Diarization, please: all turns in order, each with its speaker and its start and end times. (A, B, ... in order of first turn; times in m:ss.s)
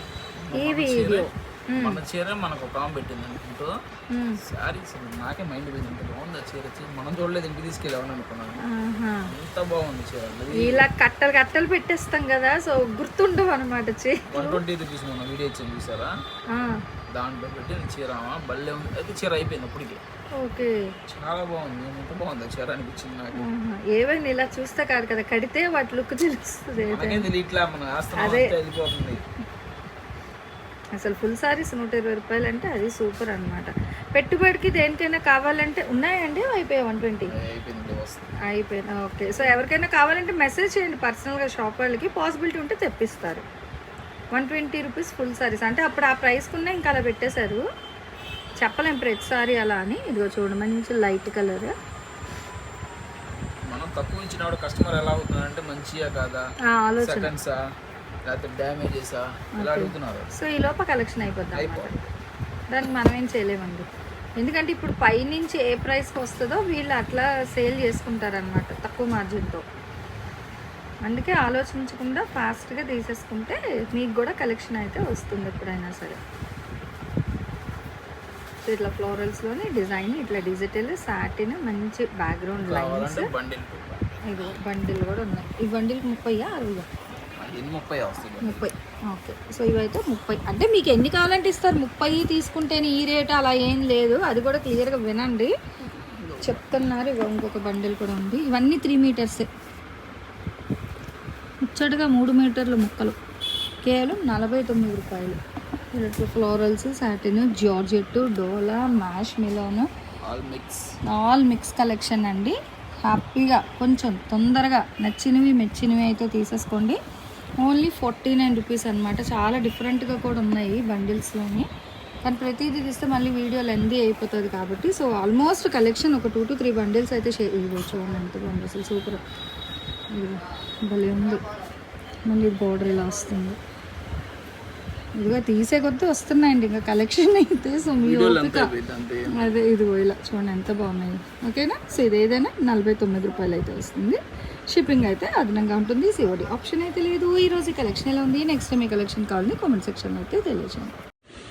0:00.4-0:03.7 A
0:00.5-0:02.0 B
0:04.1-0:04.4 B
0:04.4-0:08.6 A
0:08.6-0:09.3 B
0:09.2-0:10.8 A
0:10.5-0:14.6 B
0:14.3-0:16.1 A
0:16.5-0:16.8 B
0:17.1-0:20.0 A
0:20.4-0:20.9 B
0:21.1-0:23.5 A
0:23.4-0:27.3 B
0:26.8-0:29.2 A
0:28.1-0:28.5 B
0:31.0-0:37.3 B
0:37.3-0:38.3 A
0:38.4-0:43.4 B
0:44.3-0:47.6 B
0:48.6-0:51.7 B
0:53.6-0:56.4 A
0:56.7-0:57.3 B
0:57.0-0:57.6 A
0:58.2-1:00.3 A
0:59.6-1:02.1 B
1:01.5-1:01.9 A
1:02.7-1:03.9 B
1:04.4-1:09.6 B
1:11.0-1:16.2 B
1:18.6-1:23.3 B
1:22.6-1:24.1 A
1:24.2-1:26.9 B
1:27.4-1:28.7 A
1:28.4-1:35.5 B
1:36.0-1:36.9 A
1:36.4-1:39.5 B
1:41.7-1:43.2 B
1:43.8-1:45.4 B
1:45.9-1:49.9 B
1:50.2-1:50.8 A
1:51.1-1:57.0 B
1:57.6-2:01.7 B
2:02.2-2:09.2 B
2:10.1-2:11.4 B
2:12.3-2:13.6 B
2:15.2-2:18.7 B
2:17.9-2:19.6 A
2:19.3-2:31.0 B